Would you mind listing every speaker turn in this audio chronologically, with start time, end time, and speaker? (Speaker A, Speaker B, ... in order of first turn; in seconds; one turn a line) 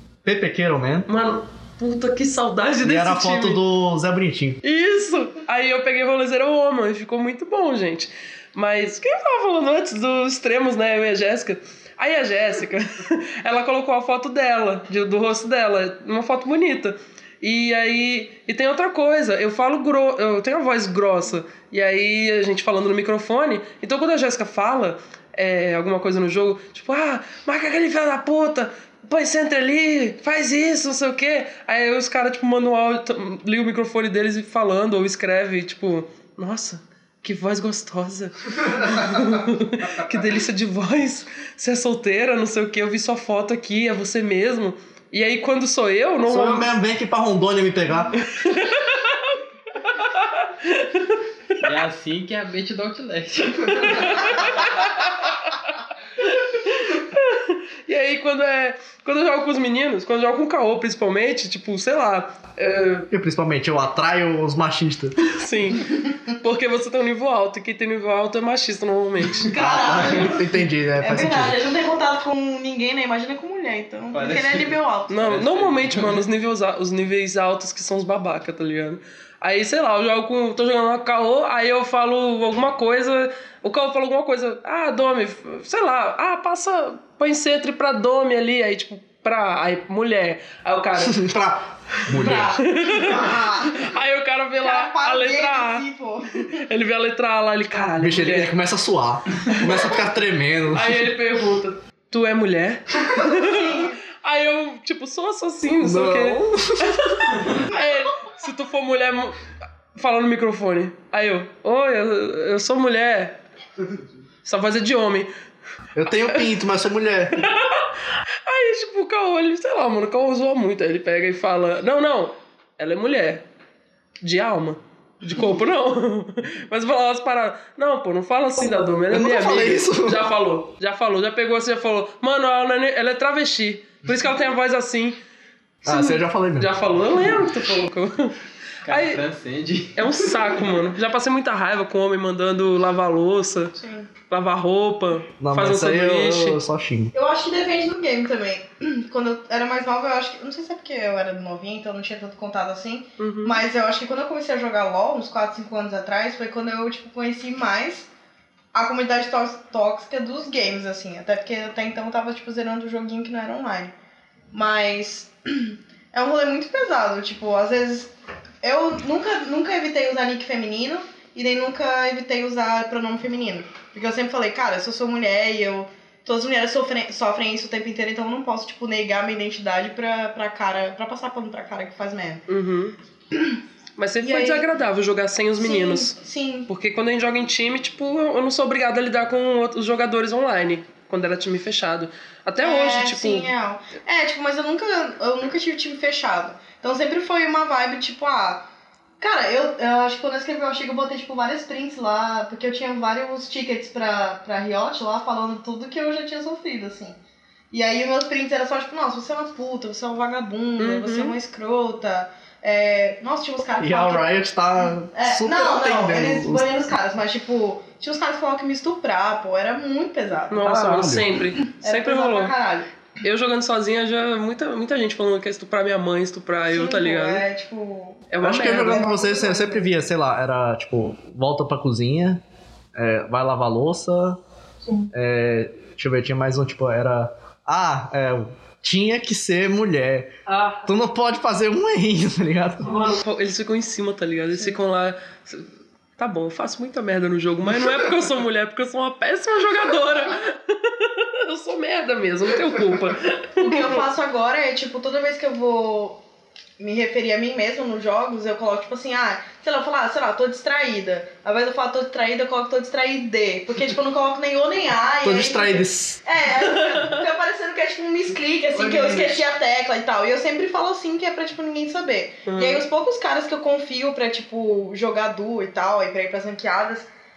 Speaker A: 0.2-1.1
Speaker B: 1.1-3.6
Speaker A: 2.8-4.6
Speaker B: 4.6-46.7
Speaker A: 46.3-48.1
Speaker B: 48.3-51.2
Speaker C: 51.6-54.7
Speaker B: 53.7-63.1
Speaker A: 63.1-65.2
Speaker B: 65.3-69.5
Speaker D: 69.5-70.5
Speaker A: 69.5-71.7
Speaker D: 71.0-75.3
Speaker C: 74.1-76.2
Speaker B: 75.1-91.2
Speaker A: 91.0-92.6
Speaker D: 92.1-93.8
Speaker B: 92.6-95.9
Speaker D: 94.6-96.6
Speaker B: 96.6-98.5
Speaker A: 98.0-101.1
Speaker B: 100.7-109.4
Speaker D: 103.2-104.0
Speaker A: 105.8-107.0
Speaker B: 110.0-113.4
Speaker B: 114.5-115.3
Speaker A: 116.0-117.4
Speaker B: 117.4-117.9
Speaker B: 118.5-123.5
Speaker B: 124.2-135.2
Speaker A: 129.1-130.3
Speaker A: 135.8-136.7
Speaker B: 135.9-139.2
Speaker C: 138.8-140.3
Speaker B: 140.0-143.7
Speaker D: 143.8-144.1
Speaker B: 144.3-146.6
Speaker A: 145.4-147.1
Speaker D: 147.1-158.1
Speaker B: 153.2-153.6
Speaker D: 158.7-163.9
Speaker D: 164.5-182.4
Speaker B: 182.5-183.0
Speaker D: 183.3-183.6
Speaker B: 184.0-186.2
Speaker D: 184.2-184.7
Speaker D: 185.6-186.7
Speaker B: 186.7-193.5
Speaker D: 192.6-198.7
Speaker D: 199.2-207.2
Speaker D: 207.7-214.3
Speaker B: 210.8-211.4
Speaker A: 213.8-216.7
Speaker D: 215.1-220.7
Speaker B: 220.5-222.5
Speaker A: 220.6-221.4
Speaker D: 221.8-222.9
Speaker B: 223.2-227.4
Speaker D: 226.7-229.9
Speaker B: 228.3-229.1
Speaker A: 228.4-232.4
Speaker A: 232.9-234.4
Speaker A: 235.1-242.9
Speaker B: 240.5-240.9
Speaker B: 242.8-245.7
Speaker B: 246.2-254.0
Speaker D: 253.6-256.2
Speaker D: 256.8-277.1
Speaker A: 265.2-266.2
Speaker B: 266.6-267.1
Speaker B: 272.5-272.8